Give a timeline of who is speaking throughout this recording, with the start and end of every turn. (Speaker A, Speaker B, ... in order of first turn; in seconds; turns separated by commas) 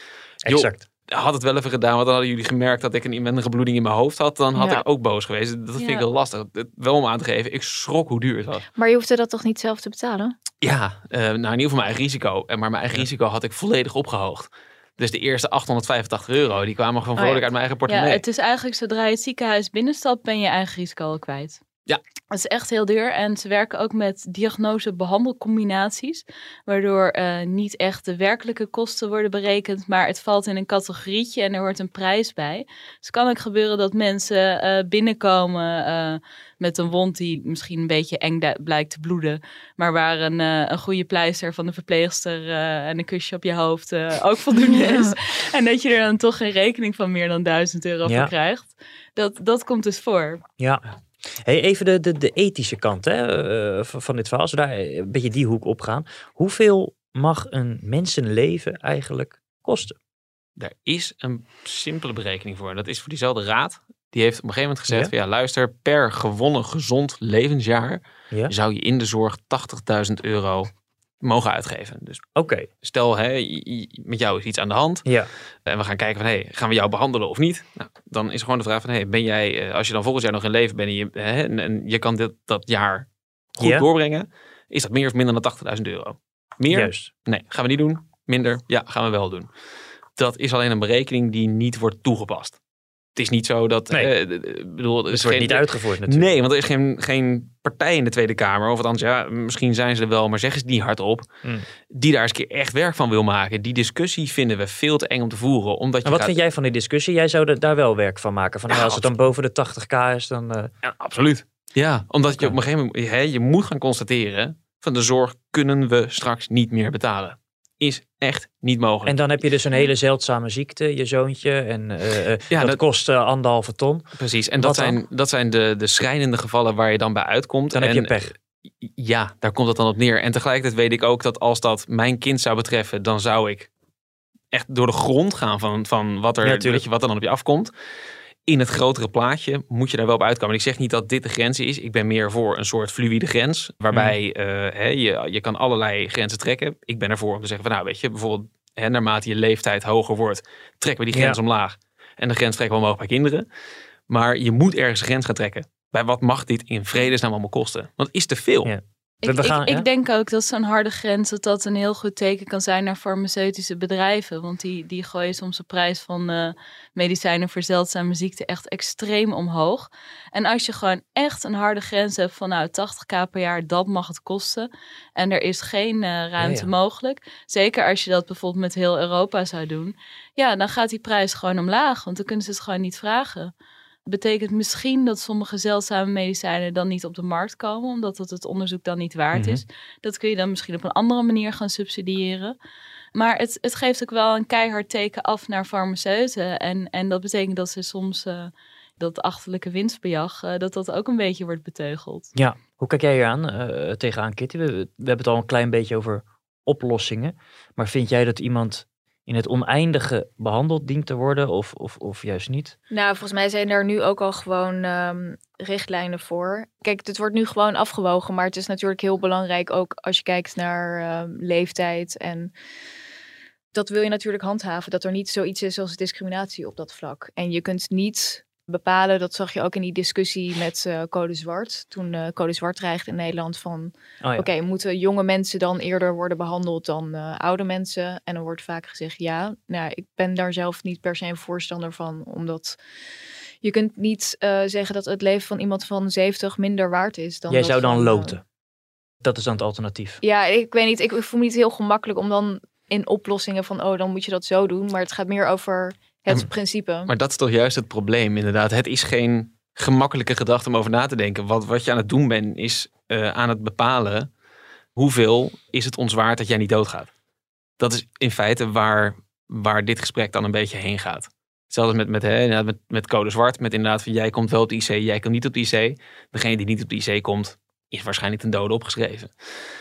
Speaker A: 0.4-8.6, Speaker B: 0.4-0.8, Speaker C: 4.5-4.8, Speaker D: 5.8-6.0, Speaker C: 8.8-10.3, Speaker A: 10.6-18.2, Speaker C: 17.1-17.4, Speaker D: 17.9-21.6, Speaker D: 22.3-50.4, Speaker B: 48.0-48.3, Speaker B: 50.6-60.0, Speaker A: 60.6-70.7, Speaker A: 71.2-72.3, Speaker B: 72.3-72.7, Speaker A: 72.8-75.1, Speaker A: 75.7-89.5, Speaker B: 83.6-83.8, Speaker B: 86.7-87.1, Speaker A: 90.2-92.6, Speaker A: 93.2-101.3, Speaker B: 95.1-96.3, Speaker A: 101.9-106.3, Speaker B: 106.0-110.7, Speaker A: 108.7-109.2, Speaker A: 110.8-119.2, Speaker B: 119.0-124.1, Speaker A: 122.5-122.8, Speaker A: 124.2-128.1, Speaker B: 124.6-125.0, Speaker B: 127.7-128.3, Speaker A: 129.0-133.7, Speaker A: 134.5-137.7, Speaker B: 136.4-136.8, Speaker A: 138.5-153.4, Speaker B: 143.9-144.2, Speaker B: 151.1-151.4, Speaker A: 154.1-158.7, Speaker B: 158.6-159.8, Speaker D: 159.2-183.5, Speaker B: 176.4-176.7, Speaker D: 184.1-192.5, Speaker B: 189.3-189.6, Speaker D: 193.1-202.3, Speaker B: 202.3-212.7, Speaker C: 212.9-222.5, Speaker C: 223.7-242.8, Speaker B: 234.2-234.5, Speaker C: 243.6-248.4, Speaker B: 247.5-248.4, Speaker B: 249.2-250.2, Speaker C: 250.2-257.1, Speaker A: 257.1-264.3, Speaker A: 264.9-267.1, Speaker A: 267.8-279.3